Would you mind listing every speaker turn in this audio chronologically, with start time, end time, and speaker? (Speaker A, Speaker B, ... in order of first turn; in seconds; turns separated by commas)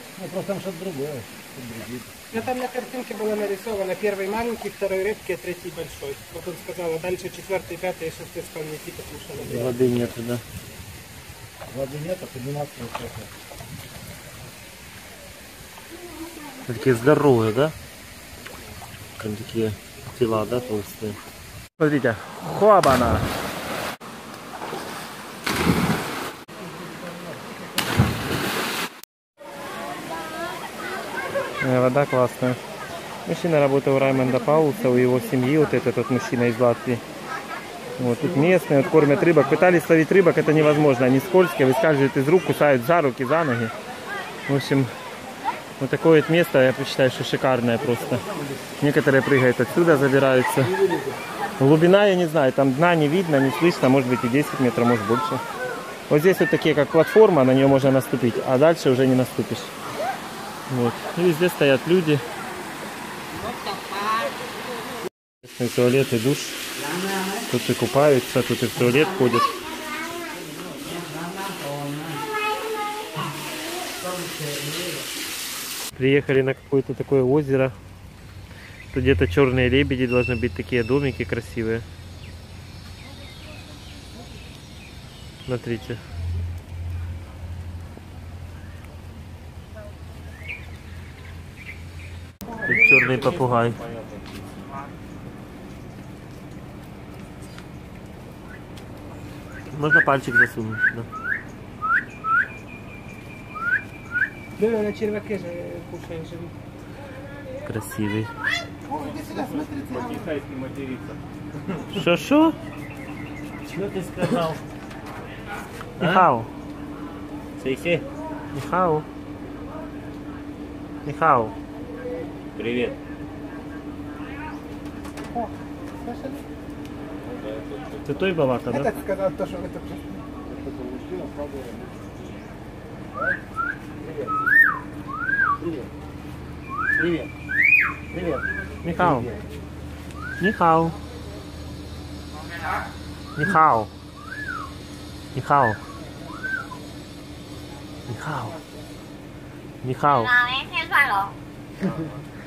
Speaker A: 0.1-2.5, Speaker B: 2.3-9.7, Speaker A: 9.4-10.2, Speaker C: 9.4-10.4, Speaker A: 11.7-13.3, Speaker C: 16.7-17.8, Speaker C: 19.2-21.2, Speaker C: 21.8-23.3, Speaker B: 26.6-28.0, Speaker C: 31.6-32.6, Speaker C: 33.3-37.0, Speaker B: 34.0-35.8, Speaker A: 38.0-39.8, Speaker C: 38.0-43.7, Speaker A: 40.4-40.9, Speaker C: 44.5-44.9, Speaker C: 45.8-48.2, Speaker A: 47.8-48.7, Speaker C: 48.8-50.7, Speaker A: 50.6-51.2, Speaker C: 51.6-55.4, Speaker C: 56.1-59.7, Speaker C: 60.7-62.2, Speaker D: 63.4-64.3, Speaker C: 65.4-66.6, Speaker C: 67.4-69.5, Speaker C: 76.0-77.8, Speaker C: 78.9-81.9, Speaker C: 85.5-86.0, Speaker C: 92.7-93.8, Speaker E: 92.7-94.8, Speaker C: 99.7-101.1, Speaker B: 104.6-106.5, Speaker C: 107.7-108.3, Speaker B: 108.9-110.3, Speaker E: 108.9-111.9, Speaker C: 111.9-112.6, Speaker E: 113.6-114.6, Speaker A: 114.2-114.5, Speaker E: 116.0-116.3, Speaker C: 116.0-116.5, Speaker E: 117.6-118.1, Speaker C: 118.5-119.0, Speaker C: 121.1-121.5, Speaker E: 122.6-123.0, Speaker B: 125.3-126.5, Speaker E: 127.2-128.3, Speaker C: 128.1-128.9, Speaker B: 128.7-130.2, Speaker A: 130.4-132.2, Speaker A: 133.1-133.4, Speaker A: 134.0-134.5, Speaker A: 135.6-135.9, Speaker A: 136.9-137.3, Speaker A: 138.1-139.4, Speaker C: 138.8-139.3, Speaker C: 140.4-141.0, Speaker C: 143.4-143.9, Speaker C: 145.3-145.8, Speaker C: 148.1-148.6, Speaker C: 149.8-150.3, Speaker D: 150.1-151.3, Speaker E: 151.8-152.2